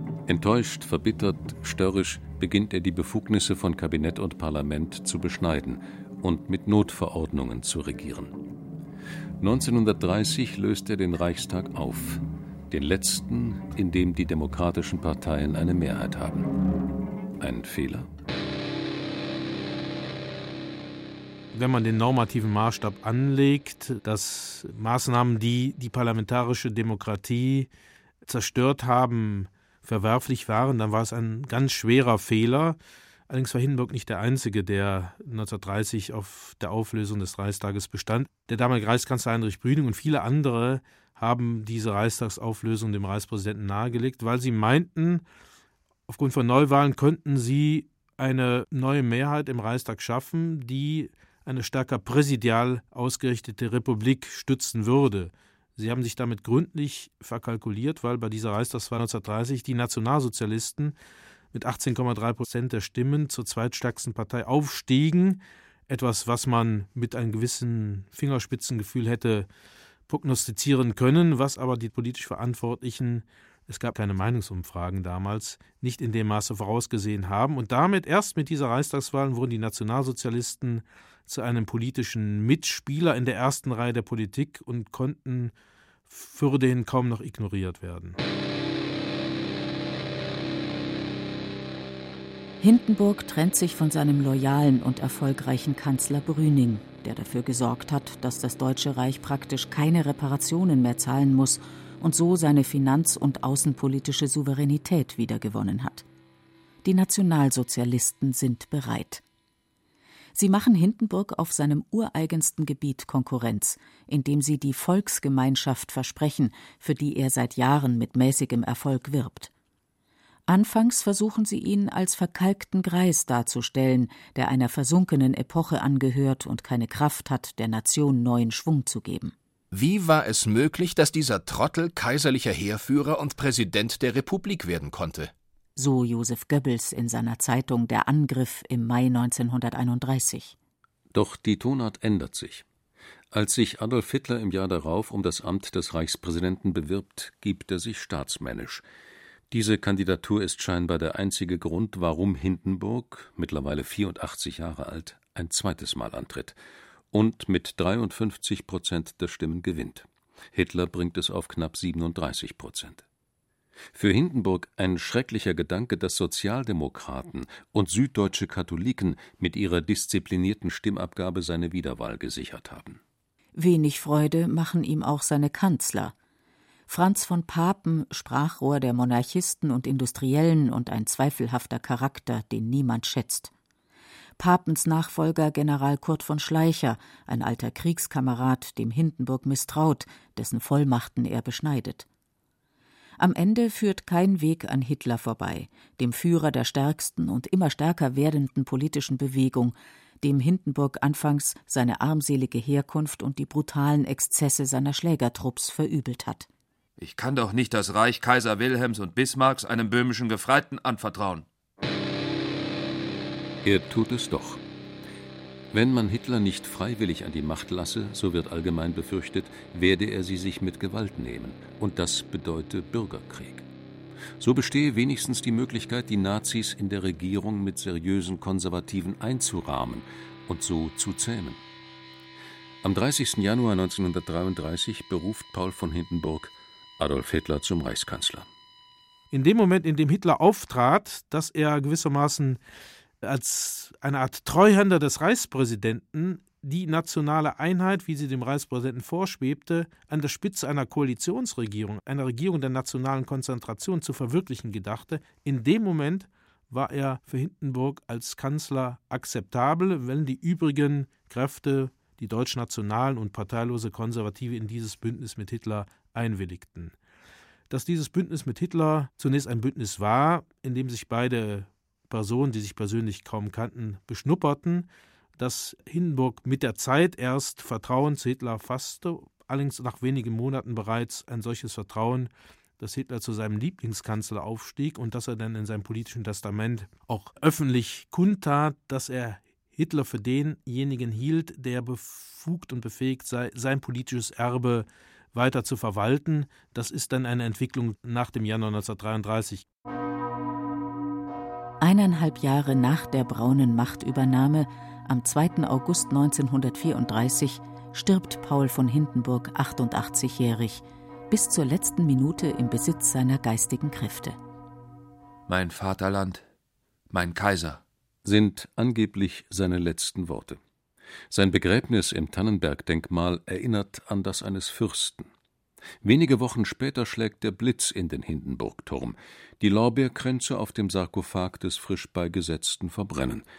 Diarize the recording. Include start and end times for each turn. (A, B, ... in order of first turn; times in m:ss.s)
0:00.3-0:08.3 A
0:09.4-0:16.5 A
0:17.4-0:18.1 A
0:21.5-0:27.7 B
0:28.2-0:32.8 B
0:33.3-0:45.2 B
0:46.1-1:00.9 B
1:01.5-1:09.5 B
1:10.1-1:25.5 B
1:26.1-1:28.2 B
1:32.6-1:46.0 C
1:46.8-1:49.2 C
1:50.3-1:59.5 C
2:00.5-2:09.3 C
2:09.7-2:15.3 D
2:15.8-2:20.6 C
2:21.1-2:22.6 A
2:23.3-2:28.8 A
2:29.5-2:36.6 A
2:37.1-2:43.0 A
2:43.9-2:53.0 A
2:53.6-2:56.1 C
2:56.9-3:03.5 C
3:04.4-3:12.0 C
3:13.2-3:26.5 C
3:27.0-3:31.4 E
3:33.6-3:34.6 A
3:35.7-3:43.6 A
3:44.4-3:51.6 A
3:52.8-3:58.5 A
3:59.3-4:02.6 B
4:03.2-4:26.9 B
4:27.7-4:59.6 B
5:01.8-5:14.4 C
5:15.5-5:16.4 E
5:17.1-5:17.8 E
5:18.2-5:20.6 A
5:21.3-5:25.3 A
5:26.0-5:33.4 A